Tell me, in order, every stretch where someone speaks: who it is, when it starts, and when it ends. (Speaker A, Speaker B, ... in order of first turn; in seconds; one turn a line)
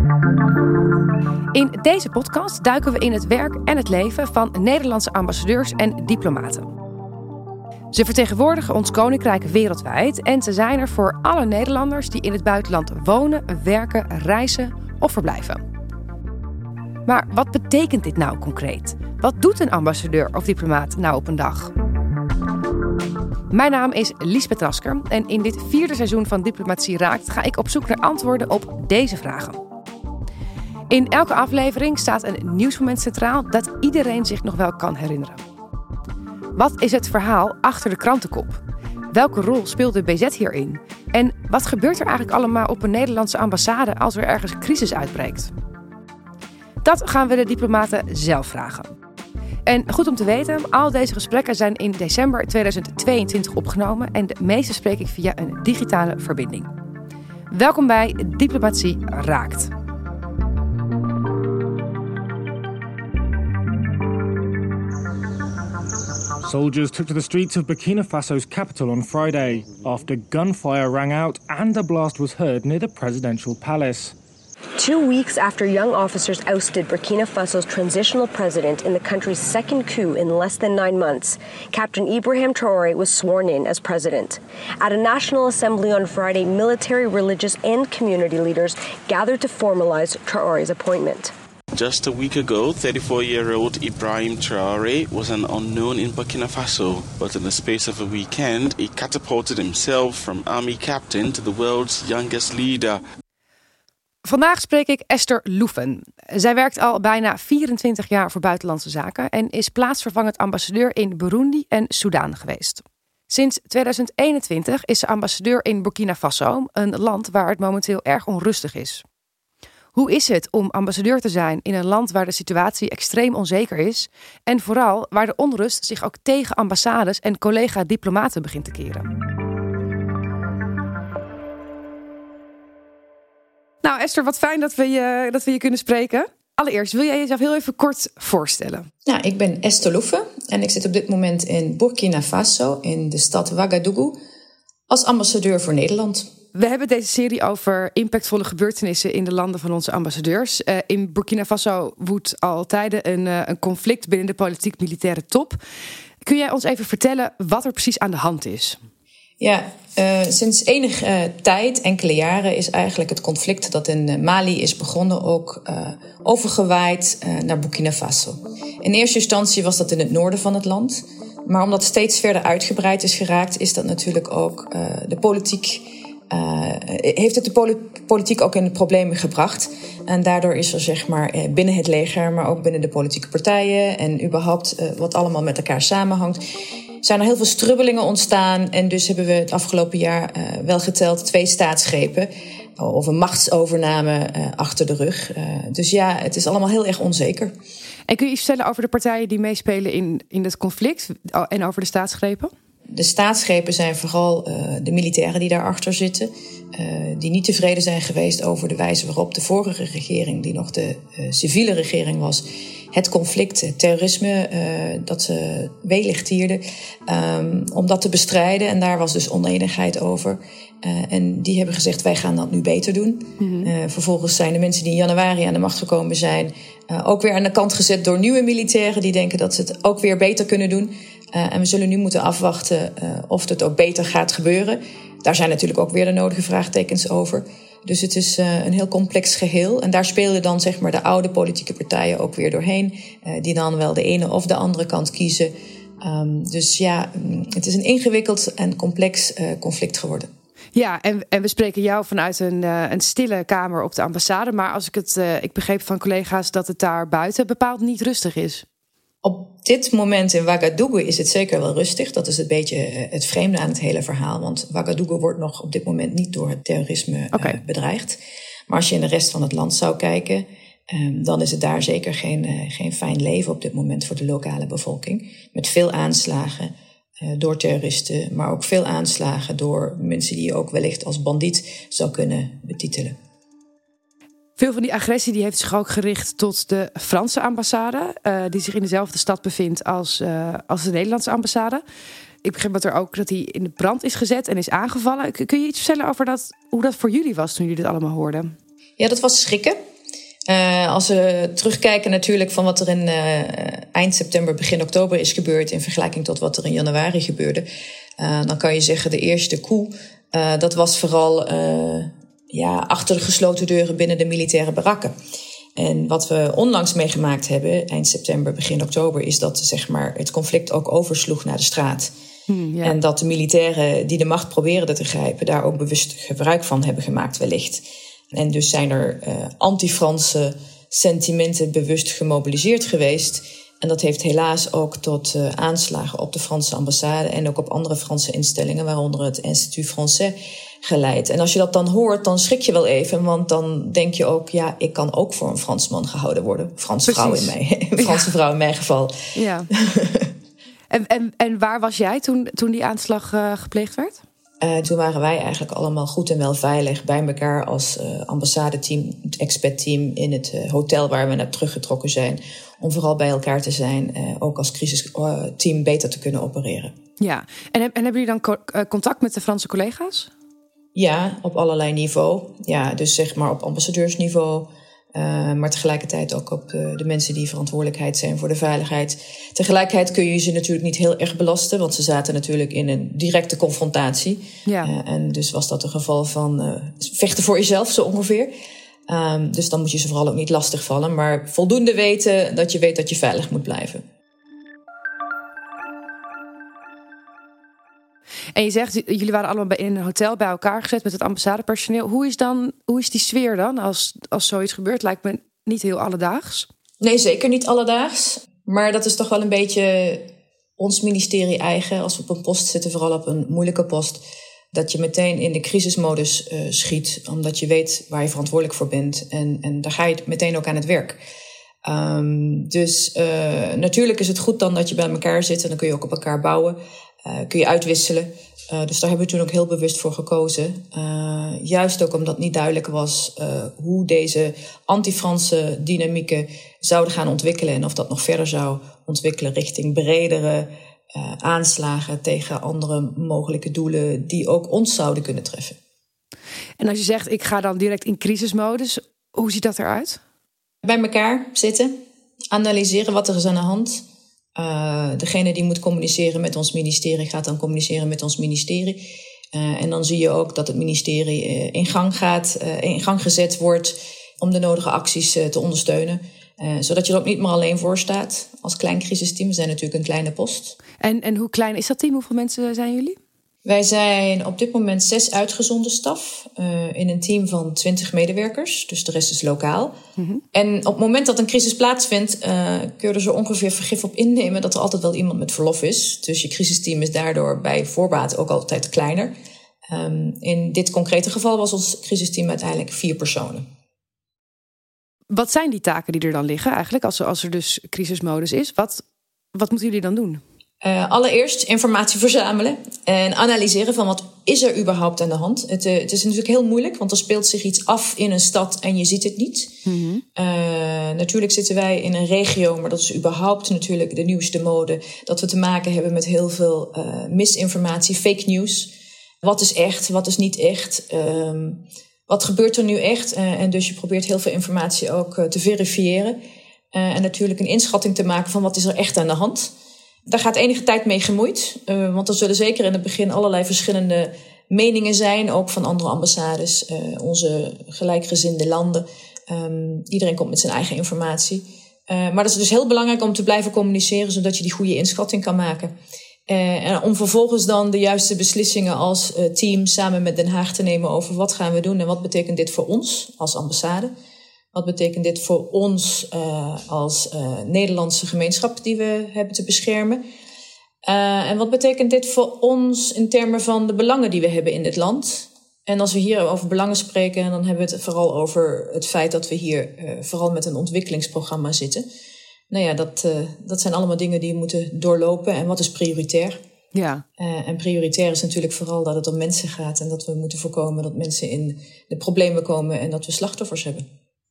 Speaker A: 1.5-6.7
Speaker A: 7.9-15.6
Speaker A: 17.1-21.7
Speaker A: 23.5-29.6
Speaker A: 30.9-35.4
Speaker A: 36.5-38.6
Speaker A: 39.1-45.5
Speaker A: 46.8-49.0
Speaker A: 49.6-56.7
Speaker A: 57.5-59.7
Speaker B: 66.4-74.1
Speaker C: 74.8-91.3
Speaker D: 91.8-103.0
Speaker A: 104.2-119.0
Speaker A: 120.0-129.1
Speaker A: 133.8-138.9
Speaker E: 139.1-144.2
Speaker E: 144.9-146.3
Speaker A: 146.5-155.6
Speaker A: 156.2-158.8
Speaker E: 159.4-186.4
Speaker E: 187.0-197.5
Speaker A: 198.1-202.5
Speaker E: 202.9-250.3
Speaker A: 223.4-223.7
Speaker A: 250.7-258.6
Speaker E: 259.2-283.1
Speaker A: 267.3-267.6
Speaker A: 284.6-291.8
Speaker A: 292.4-298.5
Speaker E: 299.0-299.8
Speaker E: 300.5-307.6
Speaker E: 308.2-315.1
Speaker E: 315.8-322.1
Speaker A: 322.5-322.9
Speaker E: 322.8-349.2
Speaker A: 347.1-348.3
Speaker A: 349.3-349.7
Speaker E: 349.7-350.3
Speaker A: 350.9-354.2
Speaker E: 354.6-366.9
Speaker A: 367.2-370.3
Speaker E: 370.9-388.5
Speaker A: 384.6-384.9
Speaker E: 389.1-394.0
Speaker A: 398.5-406.7
Speaker E: 407.0-410.2
Speaker E: 410.8-414.2
Speaker E: 414.7-421.2
Speaker E: 421.8-445.8
Speaker A: 446.8-450.2
Speaker E: 450.8-451.9
Speaker E: 452.5-454.0
Speaker E: 454.5-470.8
Speaker A: 471.0-473.2
Speaker E: 473.6-479.9
Speaker A: 480.2-480.4
Speaker E: 480.5-489.3
Speaker E: 489.9-493.6
Speaker A: 495.3-500.4
Speaker E: 500.8-509.8
Speaker A: 509.8-510.2
Speaker E: 510.4-518.9
Speaker E: 519.4-526.4
Speaker E: 526.9-529.7
Speaker E: 530.3-545.9
Speaker E: 546.5-554.1
Speaker E: 554.7-560.2
Speaker E: 561.0-572.0
Speaker E: 572.7-576.6
Speaker A: 576.9-577.2
Speaker E: 577.4-584.0